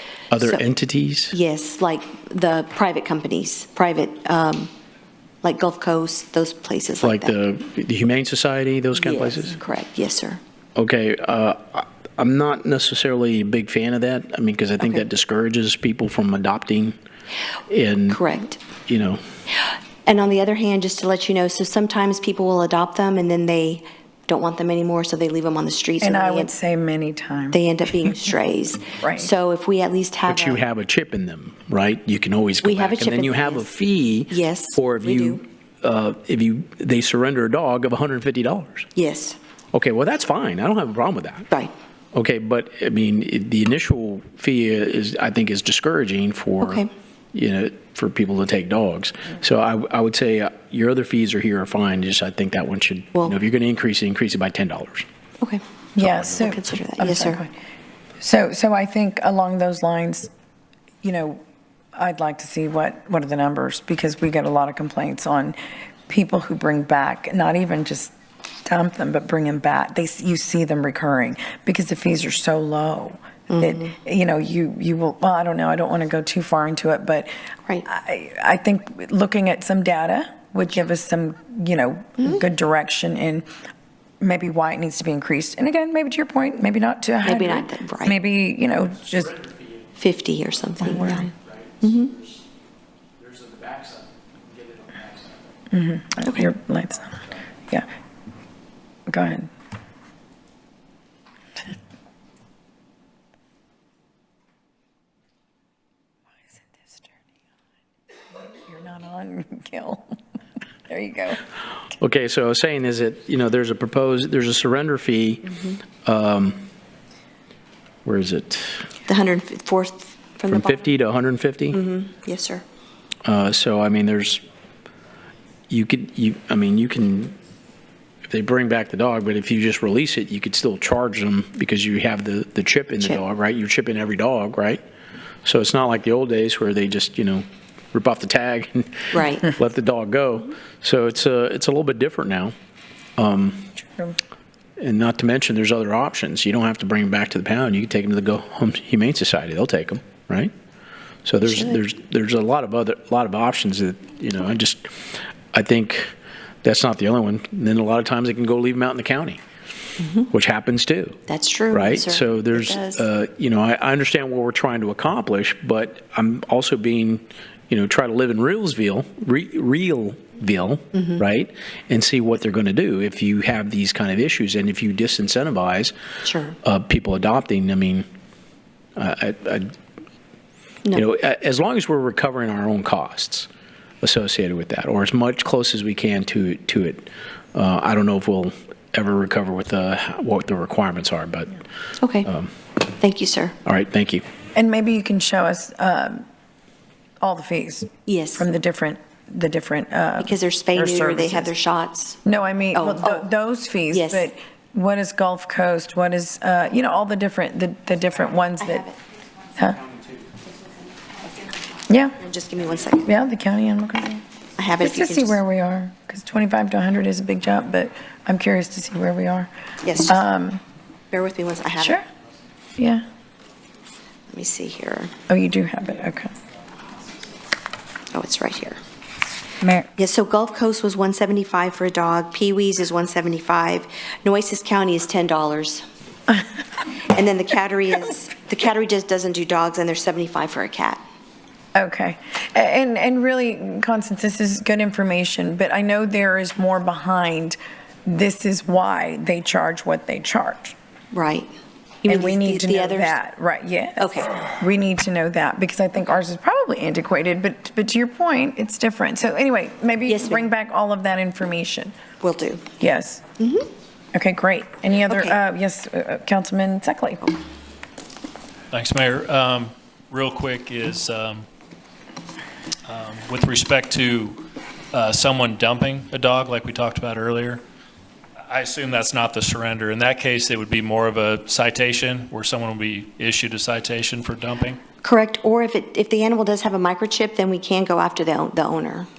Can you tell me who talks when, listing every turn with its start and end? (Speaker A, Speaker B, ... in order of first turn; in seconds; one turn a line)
Speaker A: 0.3-1.4
Speaker B: 0.4-0.7
Speaker B: 1.3-4.7
Speaker B: 5.4-7.3
Speaker A: 7.0-9.6
Speaker B: 8.9-10.4
Speaker A: 10.8-17.0
Speaker A: 17.7-18.2
Speaker B: 18.1-18.6
Speaker A: 18.9-19.2
Speaker B: 20.1-26.5
Speaker C: 26.0-27.6
Speaker B: 27.5-30.6
Speaker C: 29.0-29.3
Speaker A: 30.3-38.9
Speaker B: 32.6-33.7
Speaker B: 34.3-35.4
Speaker B: 39.0-39.4
Speaker A: 39.7-41.5
Speaker A: 42.1-55.1
Speaker B: 46.6-46.9
Speaker C: 56.0-57.5
Speaker B: 56.2-57.4
Speaker C: 58.2-60.3
Speaker C: 61.0-61.4
Speaker C: 62.0-65.6
Speaker C: 66.1-68.1
Speaker C: 68.7-77.3
Speaker B: 73.5-73.9
Speaker C: 77.9-83.5
Speaker C: 84.2-89.3
Speaker B: 87.2-88.2
Speaker A: 88.7-90.0
Speaker B: 90.0-91.3
Speaker A: 90.6-92.5
Speaker C: 90.8-91.2
Speaker B: 91.8-92.1
Speaker A: 93.2-95.6
Speaker C: 95.7-97.9
Speaker A: 97.1-97.4
Speaker C: 99.1-99.5
Speaker C: 106.5-107.1
Speaker C: 108.4-110.2
Speaker C: 110.9-111.4
Speaker A: 112.0-115.5
Speaker B: 115.5-115.8
Speaker A: 116.0-116.7
Speaker A: 118.0-118.9
Speaker B: 119.1-120.9
Speaker A: 120.5-121.8
Speaker B: 121.7-122.6
Speaker A: 123.2-124.4
Speaker A: 125.7-127.4
Speaker A: 128.3-134.8
Speaker A: 135.4-142.5
Speaker B: 139.1-139.5
Speaker A: 143.2-143.7
Speaker C: 143.8-144.2
Speaker A: 144.8-150.5
Speaker A: 151.2-156.1
Speaker B: 151.4-151.8
Speaker A: 156.6-159.4
Speaker B: 160.0-160.3
Speaker A: 160.3-161.2
Speaker B: 161.3-163.1
Speaker A: 161.7-175.9
Speaker B: 170.9-171.2
Speaker B: 176.2-176.6
Speaker A: 176.6-178.1
Speaker A: 179.0-179.7
Speaker A: 180.9-183.5
Speaker A: 184.0-191.6
Speaker B: 192.0-192.3
Speaker A: 192.3-192.5
Speaker B: 193.0-193.6
Speaker A: 193.7-194.2
Speaker C: 194.6-196.3
Speaker C: 197.2-201.5
Speaker B: 198.1-198.5
Speaker B: 200.2-202.2
Speaker C: 202.2-208.9
Speaker B: 202.7-203.3
Speaker B: 203.9-204.3
Speaker B: 208.6-209.0
Speaker C: 209.6-209.8
Speaker B: 211.2-211.6
Speaker C: 211.9-212.2
Speaker B: 212.2-213.1
Speaker C: 213.0-214.2
Speaker B: 214.6-215.4
Speaker C: 214.8-219.5
Speaker B: 219.8-220.2
Speaker C: 220.1-220.6
Speaker B: 221.1-222.0
Speaker C: 221.8-222.1
Speaker C: 222.8-223.1
Speaker B: 224.3-225.1
Speaker C: 225.3-226.3
Speaker B: 228.1-228.8
Speaker B: 229.9-235.8
Speaker B: 237.0-241.0
Speaker C: 241.8-250.8
Speaker B: 251.1-251.5
Speaker B: 252.0-253.2
Speaker C: 252.1-261.9
Speaker B: 254.0-254.6
Speaker B: 260.1-260.5
Speaker B: 262.2-262.7
Speaker C: 262.8-263.2
Speaker B: 263.4-263.7
Speaker C: 264.1-267.2
Speaker B: 265.1-265.4
Speaker D: 268.7-271.5
Speaker D: 272.9-277.6
Speaker D: 278.5-284.8
Speaker B: 285.0-289.1